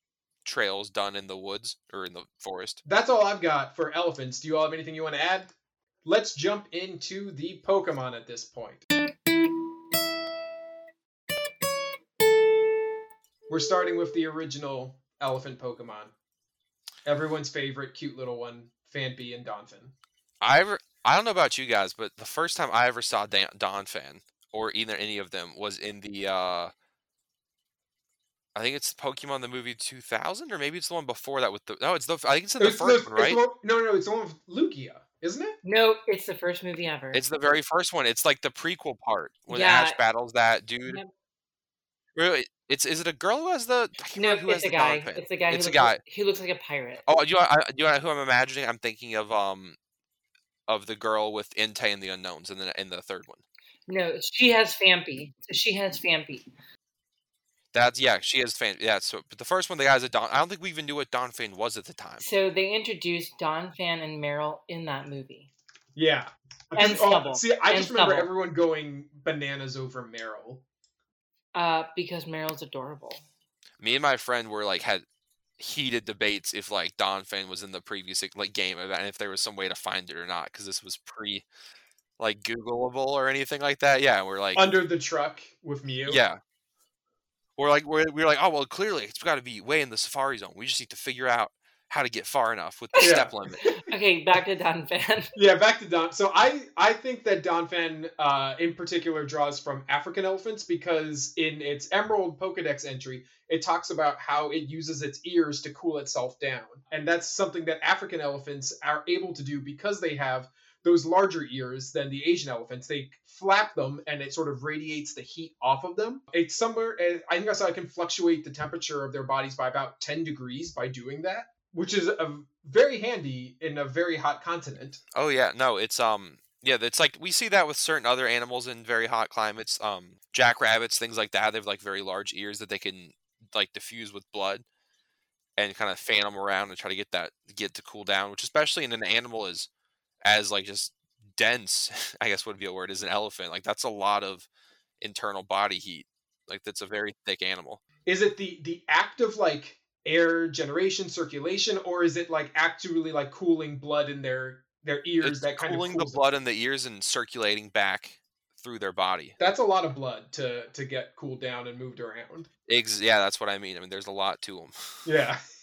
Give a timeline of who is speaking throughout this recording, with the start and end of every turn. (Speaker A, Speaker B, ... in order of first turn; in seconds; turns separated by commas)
Speaker A: 0.5-2.8, Speaker B: 2.9-5.5, Speaker B: 6.0-8.8, Speaker B: 13.5-16.1, Speaker B: 17.1-19.9, Speaker A: 20.4-26.7, Speaker A: 28.6-33.4, Speaker B: 32.6-35.6, Speaker C: 35.6-37.2, Speaker A: 37.1-41.0, Speaker C: 39.5-40.0, Speaker A: 42.2-46.0, Speaker C: 44.1-47.0, Speaker A: 47.1-49.8, Speaker A: 50.7-53.4, Speaker C: 53.9-56.5, Speaker A: 57.7-62.2, Speaker C: 62.2-65.5, Speaker B: 66.0-70.6, Speaker C: 66.8-68.3, Speaker C: 71.5-73.2, Speaker A: 73.8-75.0, Speaker A: 75.6-81.5, Speaker A: 82.2-84.7, Speaker B: 84.5-86.2, Speaker A: 86.1-86.4, Speaker A: 87.6-93.7, Speaker B: 93.0-93.7, Speaker C: 93.6-95.3, Speaker B: 95.3-125.0, Speaker A: 125.1-134.7, Speaker A: 135.6-139.7, Speaker A: 140.2-144.5, Speaker A: 145.0-147.8, Speaker B: 148.1-156.2, Speaker A: 155.2-159.3, Speaker B: 159.4-162.5, Speaker A: 162.7-165.0, Speaker B: 165.1-165.4